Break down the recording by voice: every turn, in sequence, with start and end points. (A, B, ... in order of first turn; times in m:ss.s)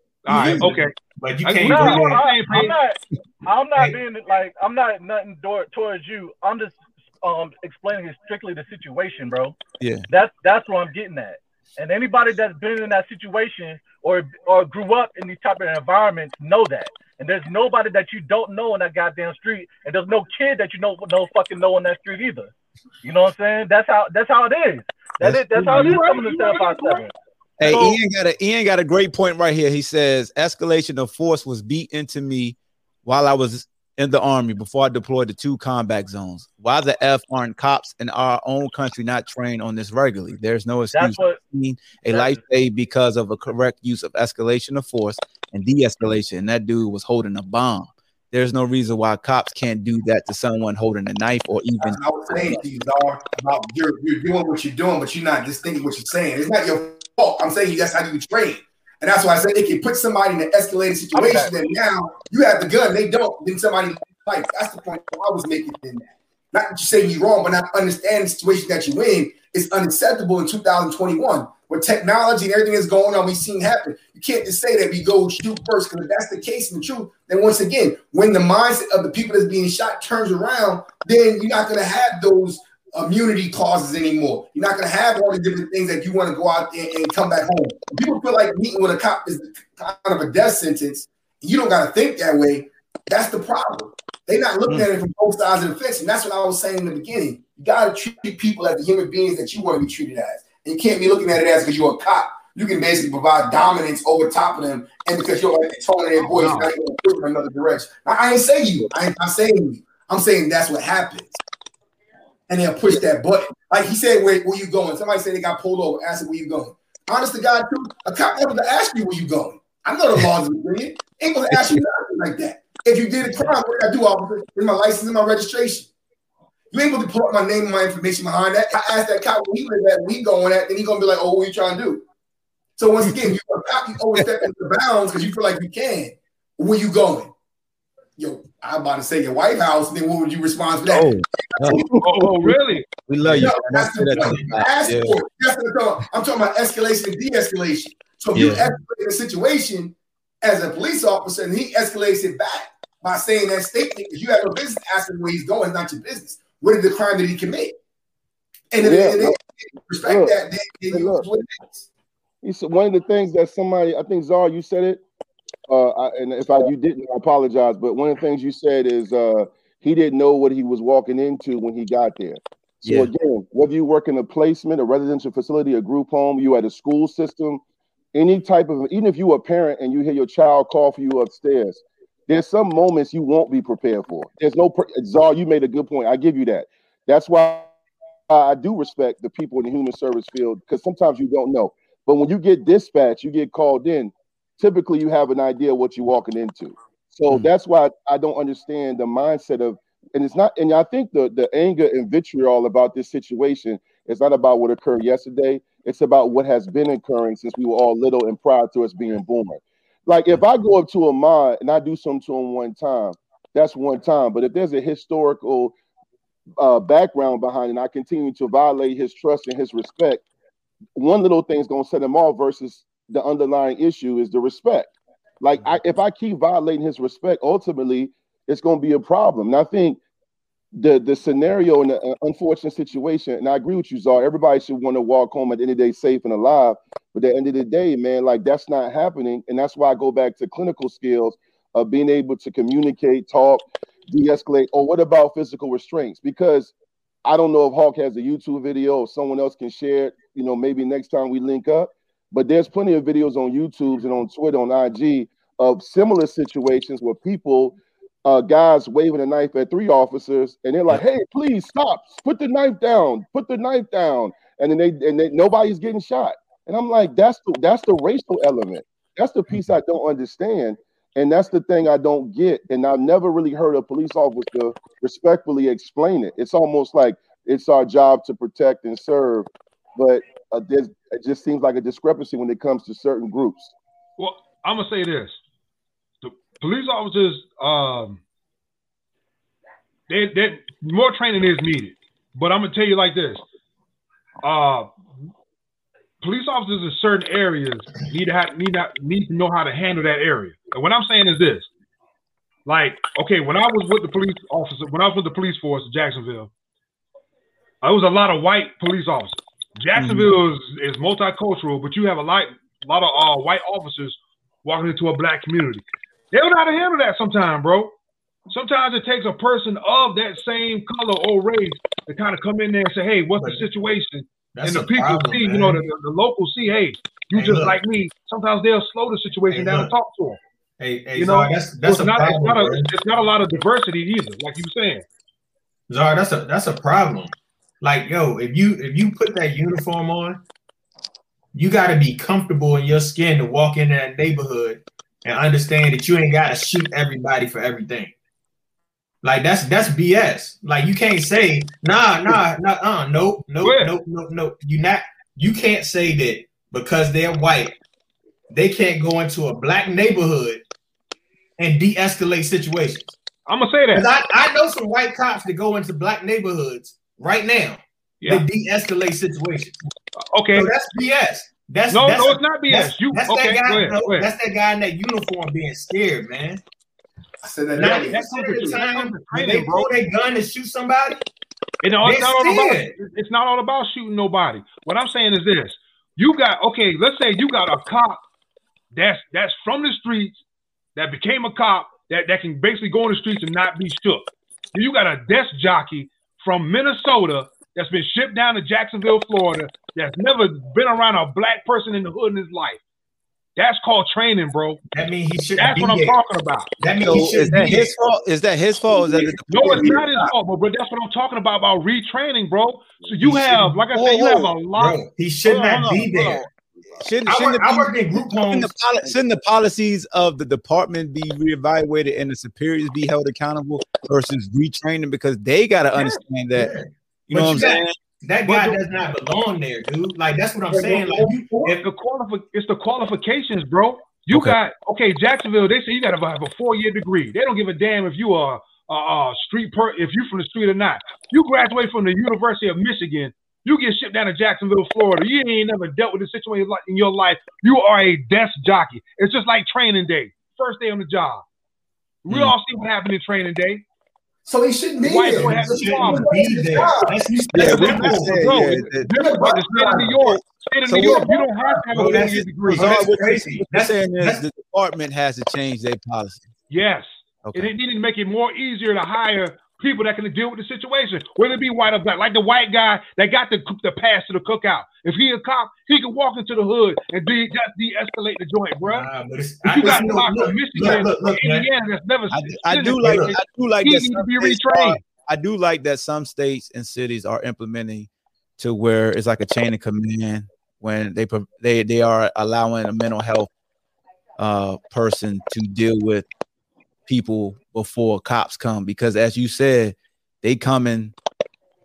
0:00.2-0:00.9 A
0:00.3-0:00.7 B
0:00.3-0:02.6 C
0:01.4-0:02.7 A
0:01.6-0:09.6 D
0:09.8-0:10.1 B
0:10.1-0:22.5 D
0:23.0-0:27.1 D
0:25.2-0:26.0 B
0:25.5-0:27.0 A
0:27.6-0:52.5 B
0:27.6-0:28.0 D
0:40.9-0:41.4 D
0:42.1-0:42.4 D
0:51.8-1:51.4 E
1:01.1-1:01.5 D
1:46.2-1:46.7 A
1:52.5-2:05.9 E
2:01.5-2:01.8 B
2:06.7-2:12.0 E
2:12.8-2:17.3 E
2:13.0-2:13.3 B
2:18.2-2:22.0 E
2:20.8-2:22.6 B
2:22.0-2:22.8 A
2:23.1-2:25.2 B
2:23.2-2:37.7 E
2:24.1-2:24.5 C
2:28.3-2:28.7 B
2:38.7-2:41.9 E
2:38.8-2:39.4 F
2:40.0-2:40.4 F
2:40.9-2:41.3 F
2:42.4-2:45.0 F
2:45.7-2:57.6 F
2:52.8-2:53.1 B
2:58.1-3:07.8 F
3:08.3-3:35.7 F
3:36.6-3:40.2 F
3:40.9-3:50.0 F
3:50.7-4:06.7 F
4:07.2-4:43.7 F
4:44.2-4:45.4 A
4:46.2-4:48.2 A
4:50.1-4:53.4 A
4:54.4-4:54.9 A
4:56.2-5:01.7 A
5:02.6-5:06.5 A
5:07.8-5:17.9 A
5:09.9-5:10.3 B
5:18.5-5:30.4 A
5:23.4-5:23.6 C
5:24.5-5:25.8 C
5:27.3-5:27.8 C
5:29.5-5:29.9 C
5:30.8-5:32.9 C
5:31.1-5:35.0 A
5:35.9-5:40.4 C
5:41.5-5:48.1 C
5:49.2-5:57.8 C
5:53.6-5:53.9 A
5:58.5-6:00.6 C
6:01.6-6:03.1 C
6:03.5-6:04.1 A
6:03.9-6:09.8 C
6:10.2-6:10.7 A
6:10.5-6:16.6 C
6:11.9-6:14.3 A
6:17.4-6:18.8 E
6:17.7-6:21.2 C
6:18.1-6:19.9 A
6:21.8-6:28.2 A
6:22.0-6:22.9 C
6:28.9-6:30.4 A
6:31.0-6:42.8 A
6:43.6-6:44.8 A
6:44.9-6:46.2 C
6:45.6-6:46.7 A
6:46.8-6:47.9 C
6:47.0-6:50.0 B
6:48.9-6:50.1 E
6:49.5-6:56.4 A
6:53.2-6:53.9 C
6:53.9-6:54.6 B
6:54.7-6:56.4 C
6:55.4-6:56.4 B
6:57.0-7:06.7 B
6:57.2-6:58.8 C
7:06.5-7:11.8 C
7:07.3-7:07.9 B
7:08.4-7:08.8 A
7:10.7-7:11.8 E
7:11.7-7:31.4 A
7:14.3-7:14.6 B
7:32.2-7:33.8 A
7:32.3-7:32.5 B
7:34.4-7:37.2 E
7:35.0-7:36.3 A
7:35.1-7:38.7 C
7:37.5-7:39.1 B
7:37.6-7:43.0 A
7:39.1-7:40.3 E
7:40.9-7:41.3 B
7:40.9-7:41.8 E
7:41.9-7:44.4 C
7:42.0-7:46.5 B
7:46.7-7:59.1 A
7:47.4-7:47.7 B
7:58.8-8:01.7 C
7:59.6-8:05.0 A
7:59.8-8:00.2 E
8:02.3-8:13.5 B
8:03.0-8:03.4 C
8:14.4-8:16.2 B
8:17.1-8:21.1 B